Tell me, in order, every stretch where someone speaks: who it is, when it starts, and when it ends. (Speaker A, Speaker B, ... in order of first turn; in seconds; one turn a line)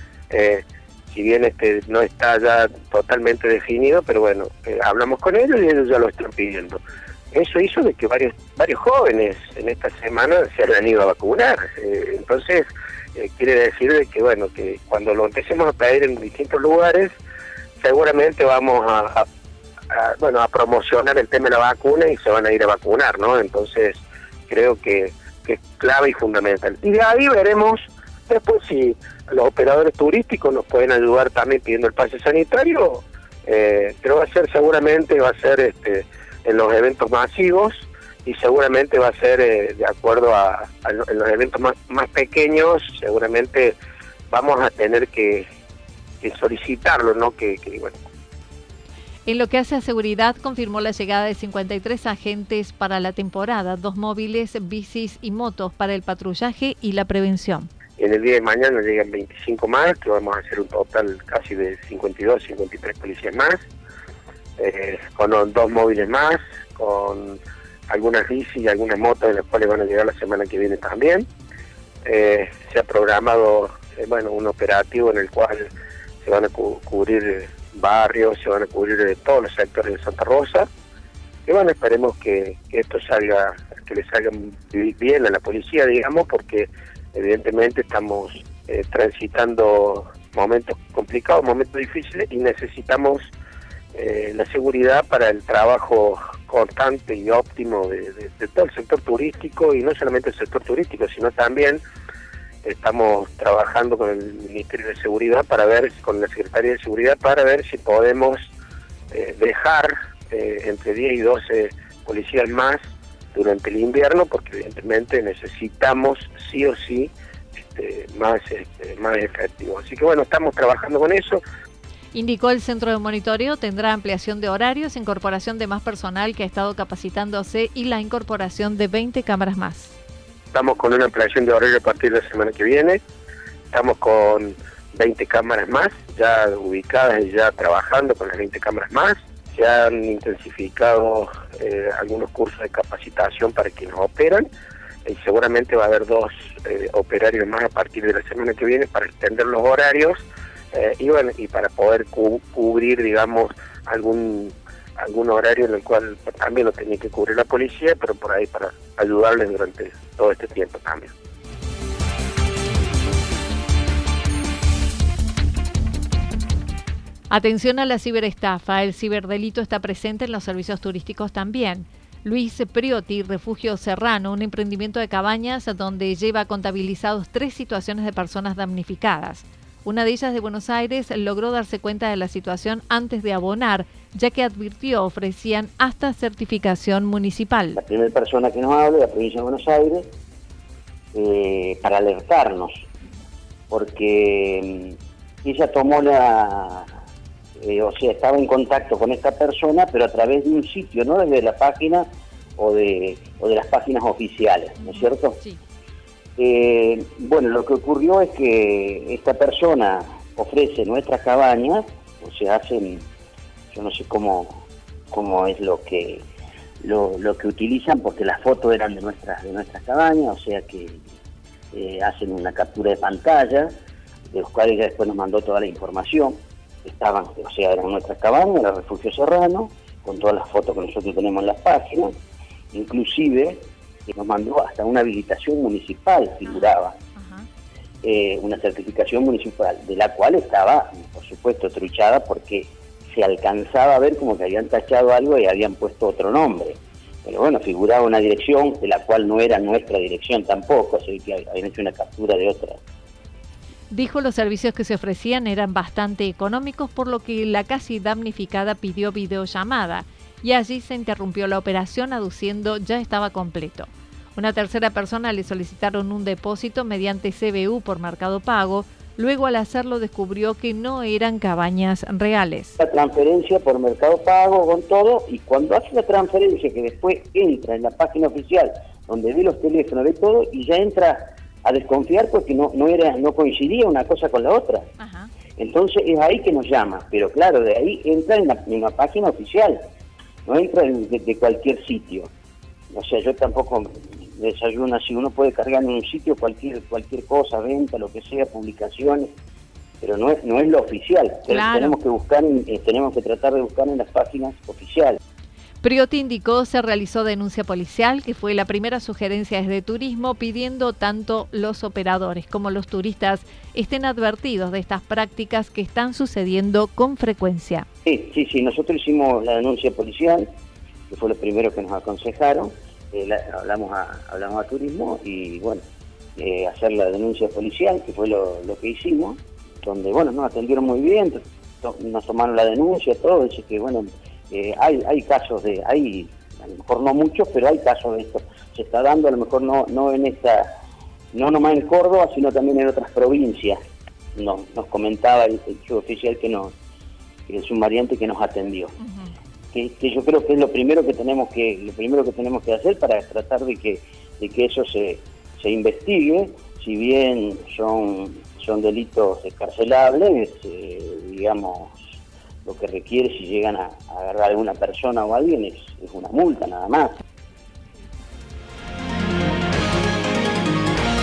Speaker A: 0.3-6.8
Speaker A: 7.3-17.1
Speaker A: 17.8-19.2
Speaker A: 19.9-43.8
Speaker A: 44.3-45.4
Speaker A: 46.2-48.0
Speaker B: 49.2-57.7
Speaker A: 58.0-63.6
Speaker A: 64.6-71.2
Speaker A: 72.0-75.7
Speaker A: 76.2-80.7
Speaker A: 81.5-93.3
Speaker A: 94.0-101.8
Speaker A: 102.6-108.5
Speaker A: 109.1-112.8
Speaker A: 113.3-121.4
Speaker B: 122.1-130.0
Speaker A: 130.5-133.0
Speaker A: 133.7-144.5
Speaker A: 145.1-161.1
Speaker B: 167.3-187.8
Speaker C: 187.8-190.1
Speaker C: 191.1-192.9
Speaker C: 193.7-196.9
Speaker C: 197.6-205.4
Speaker B: 204.8-205.6
Speaker C: 206.4-213.1
Speaker C: 213.7-216.2
Speaker C: 216.8-221.0
Speaker C: 221.7-223.7
Speaker C: 224.3-232.1
Speaker C: 232.7-237.0
Speaker B: 236.4-237.5
Speaker C: 238.0-252.8
Speaker B: 253.9-272.8
Speaker C: 272.8-284.9
Speaker B: 285.0-285.3
Speaker C: 285.6-289.8
Speaker C: 290.5-292.3
Speaker C: 292.9-299.3
Speaker C: 300.0-305.2
Speaker B: 301.5-302.0
Speaker B: 305.8-317.9
Speaker C: 318.1-320.5
Speaker C: 321.1-325.8
Speaker C: 326.4-340.7
Speaker C: 341.3-343.8
Speaker C: 344.4-346.7
Speaker C: 347.5-348.9
Speaker B: 349.0-349.3
Speaker C: 349.7-367.2